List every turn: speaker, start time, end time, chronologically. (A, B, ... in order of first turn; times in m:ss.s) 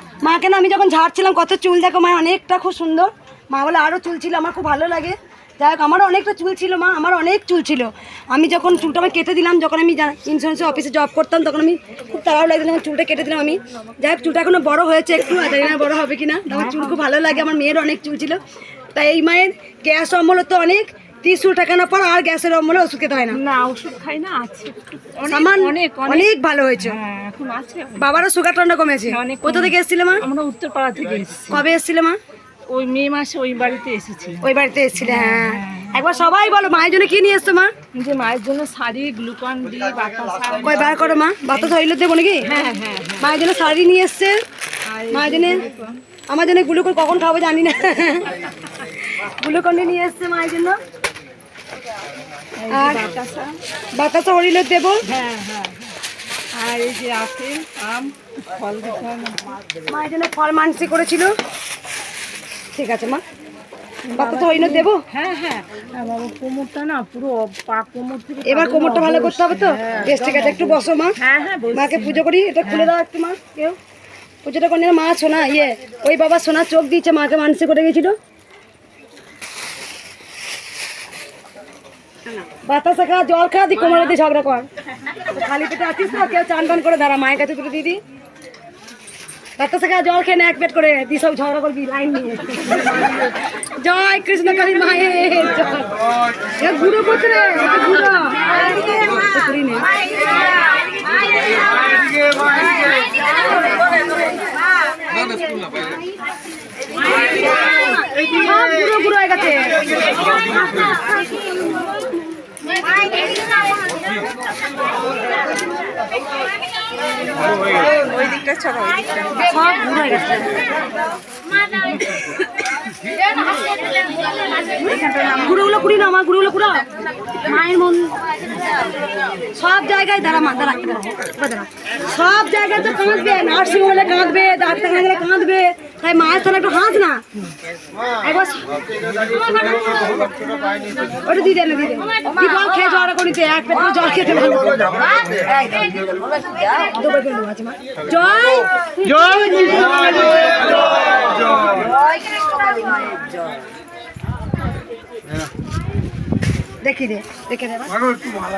0:00.2-0:18.4 A
0:16.5-0:17.0 B
0:18.9-0:23.4 A
0:23.3-0:28.2 B
0:25.3-0:27.0 A
0:28.0-0:30.2 A
0:29.1-0:31.6 B
0:31.5-0:32.2 A
0:32.7-0:34.4 B
0:34.4-0:37.7 A
0:35.0-0:35.9 B
0:37.9-0:41.7 B
0:40.6-0:42.4 A
0:42.4-0:43.3 B
0:43.2-0:44.4 A
0:44.9-0:46.0 B
0:45.1-0:45.6 A
0:46.3-0:48.4 A
0:49.2-0:50.8 A
0:52.6-0:53.6 B
0:52.7-0:53.1 A
0:53.9-0:55.0 A
0:55.0-0:55.9 B
0:56.6-0:59.5 B
0:59.9-1:01.3 A
1:02.7-1:03.2 A
1:04.0-1:12.9 B
1:04.1-1:05.0 A
1:08.4-1:11.2 A
1:11.7-1:13.8 A
1:14.4-1:18.2 A
1:22.6-1:24.7 A
1:25.3-1:28.0 A
1:29.6-1:35.9 A
1:36.6-1:40.0 A
1:48.3-1:49.8 A
1:57.6-1:59.2 B
1:59.4-2:00.6 A
2:04.8-2:06.8 A
2:07.4-2:08.1 A
2:09.5-2:17.2 A
2:18.2-2:18.6 A
2:21.2-2:24.8 A
2:25.4-2:25.9 A
2:26.8-2:30.4 A
2:32.5-2:32.9 A
2:36.8-2:38.0 A